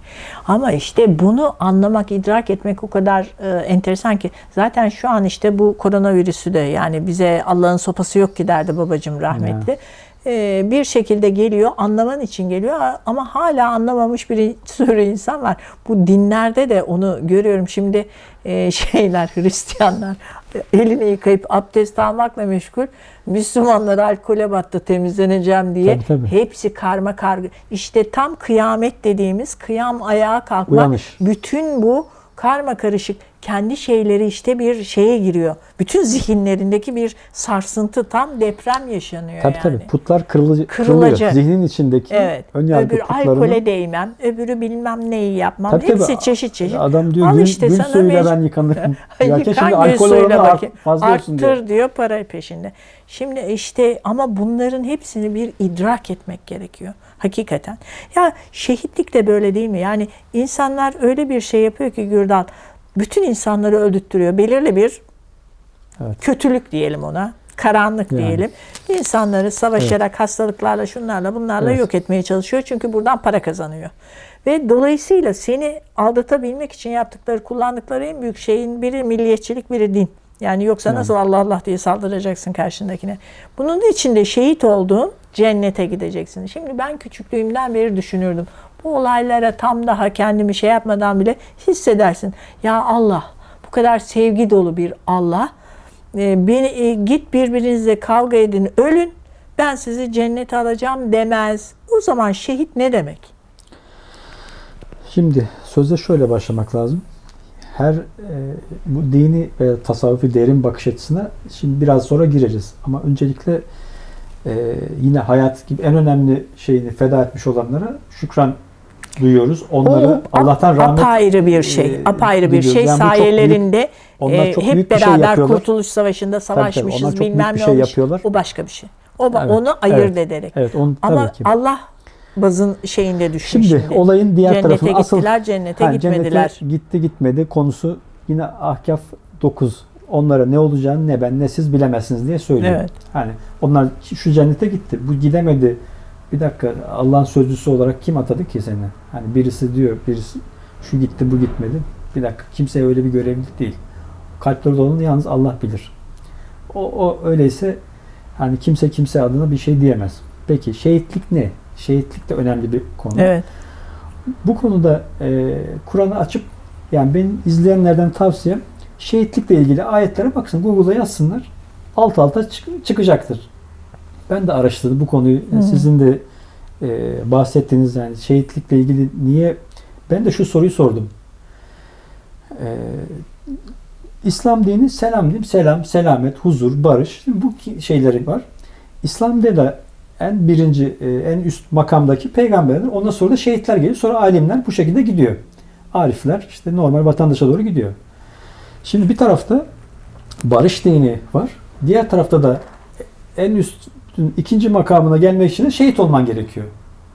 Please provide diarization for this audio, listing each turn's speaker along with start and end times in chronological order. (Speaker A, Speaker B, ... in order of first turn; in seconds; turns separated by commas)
Speaker A: 0.5-39.9, Speaker B: 9.3-9.7, Speaker B: 25.8-26.3, Speaker B: 30.7-31.2, Speaker B: 39.4-43.6, Speaker A: 40.7-41.4, Speaker A: 42.1-65.0, Speaker B: 45.7-51.6, Speaker A: 66.2-73.9, Speaker B: 68.1-68.4, Speaker B: 71.6-71.8, Speaker A: 74.4-95.5, Speaker B: 80.8-81.1, Speaker A: 96.1-103.3, Speaker B: 105.1-107.0, Speaker B: 107.7-113.6, Speaker B: 114.4-118.6, Speaker B: 119.2-123.6, Speaker A: 119.8-131.8, Speaker B: 124.2-125.7, Speaker B: 126.5-128.2, Speaker B: 129.3-131.5, Speaker A: 132.3-136.6, Speaker B: 133.4-145.8, Speaker A: 142.6-142.9, Speaker B: 146.3-153.8, Speaker B: 154.4-155.9, Speaker B: 156.7-157.8, Speaker B: 158.4-163.3, Speaker A: 163.1-163.4, Speaker B: 164.4-173.5, Speaker B: 174.3-176.2, Speaker A: 175.5-175.9, Speaker B: 176.8-179.6, Speaker B: 180.1-181.1, Speaker B: 182.5-183.3, Speaker B: 184.2-188.4, Speaker B: 189.0-195.4, Speaker B: 195.9-197.9, Speaker B: 198.8-199.6, Speaker B: 200.4-202.6, Speaker B: 203.3-206.7